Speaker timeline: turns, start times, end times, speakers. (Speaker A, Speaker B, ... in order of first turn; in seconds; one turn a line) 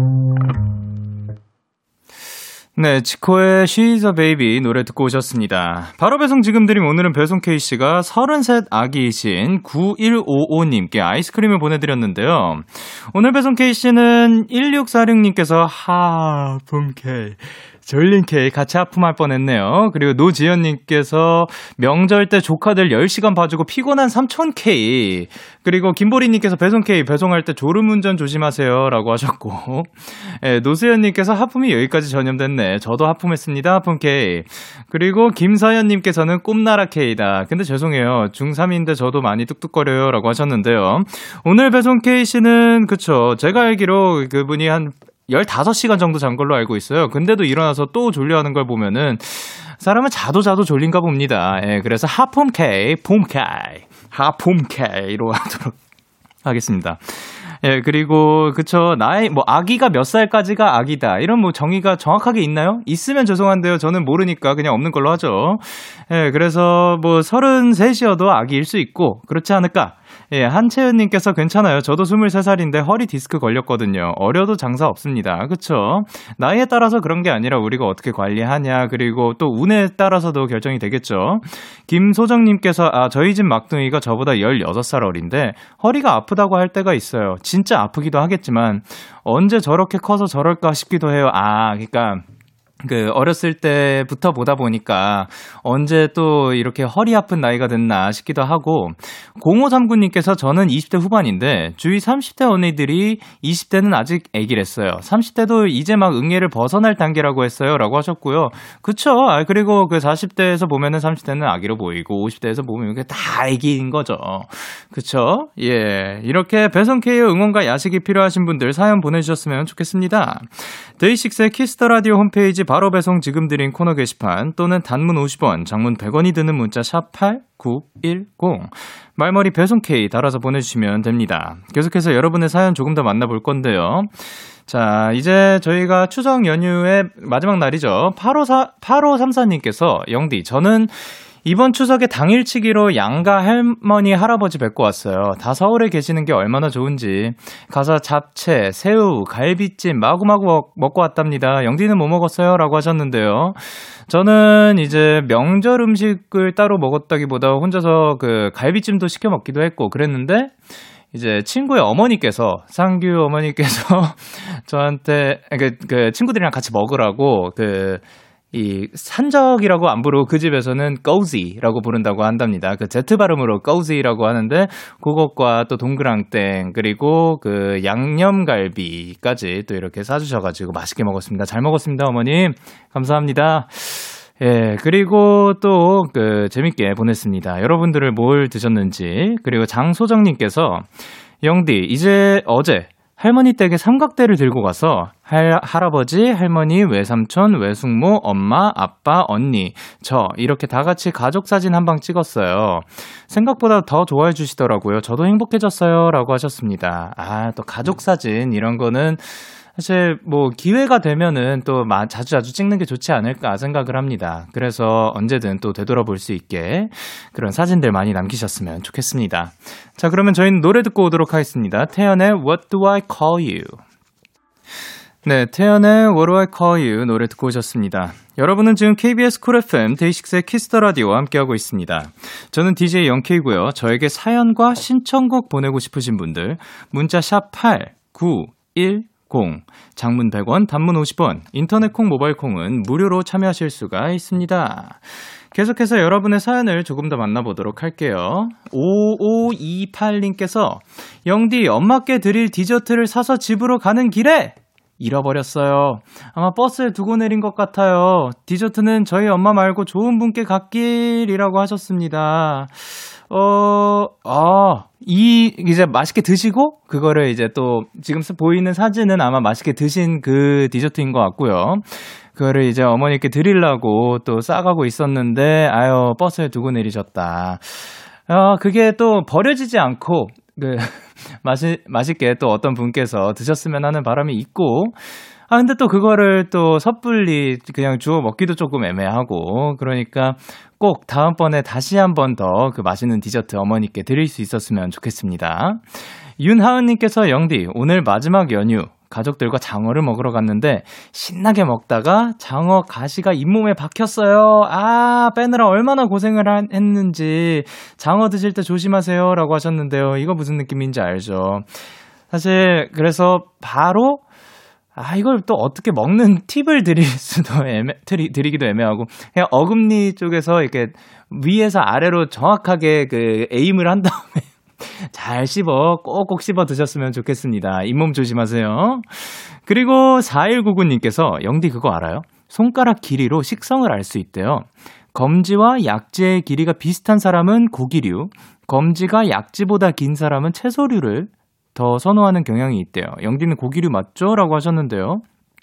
Speaker A: 2.8-55.8
Speaker A: 56.4-92.2
Speaker A: 92.8-160.6
Speaker A: 161.1-223.8
Speaker A: 225.2-314.2
Speaker A: 314.9-345.2